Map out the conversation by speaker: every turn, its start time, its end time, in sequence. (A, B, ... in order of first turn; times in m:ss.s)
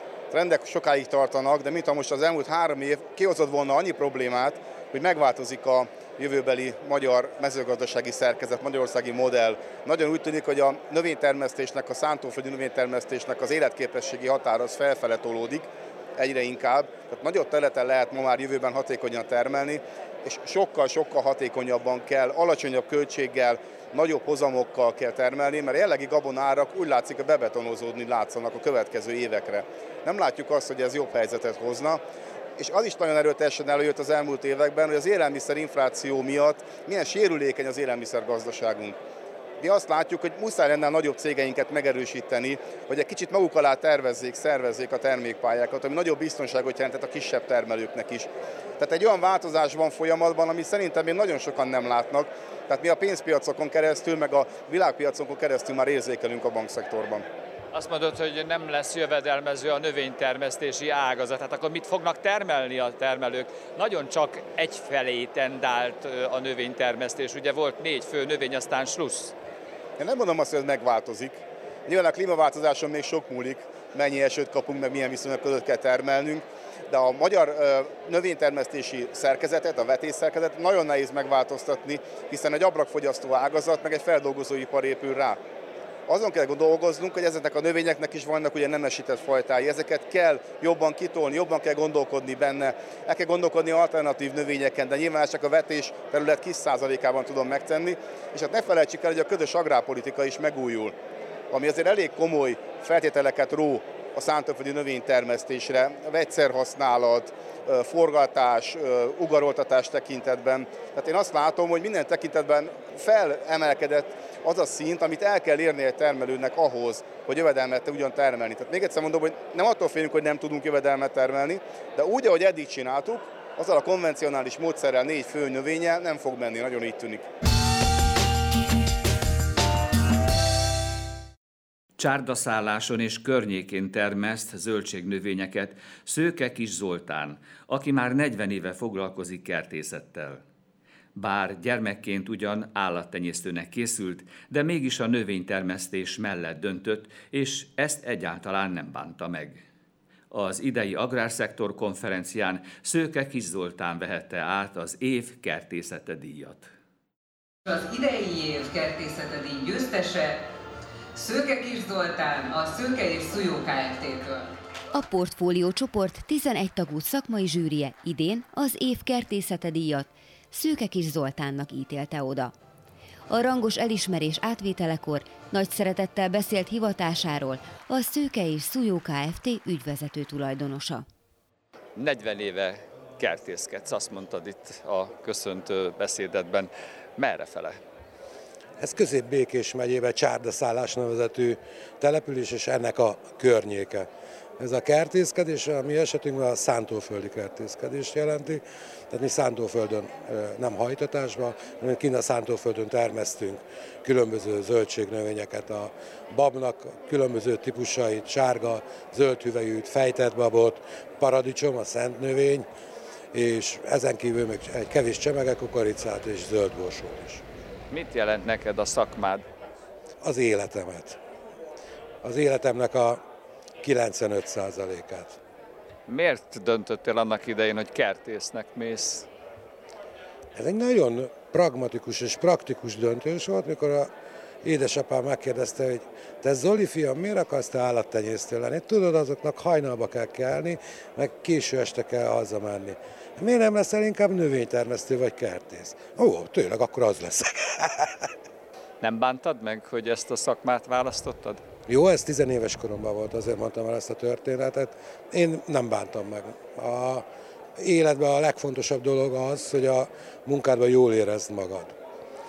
0:00.3-0:32.0 A
0:32.6-0:39.0 A
0:39.6-0:57.2 A
0:57.7-1:09.3 B
1:10.0-1:25.4 A
1:26.1-1:40.9 A
1:41.5-2:07.3 A
2:12.0-2:20.4 C
2:21.1-2:29.6 C
2:30.3-2:36.7 C
2:37.6-2:40.4 D
2:41.1-2:44.5 D
2:44.9-2:52.5 E
2:53.3-3:01.0 E
3:02.0-3:07.8 B
3:08.8-3:14.1 F
3:14.6-3:32.7 F
3:33.3-3:37.4 F
3:37.9-3:39.4 B
3:40.2-3:41.2 F
3:42.2-3:43.2 F
3:43.8-3:45.4 F
3:46.1-3:49.3 B
3:50.5-3:54.1 F
3:54.6-4:08.1 F
4:09.0-4:11.6 B
4:11.9-4:17.2 F
4:17.8-4:21.9 F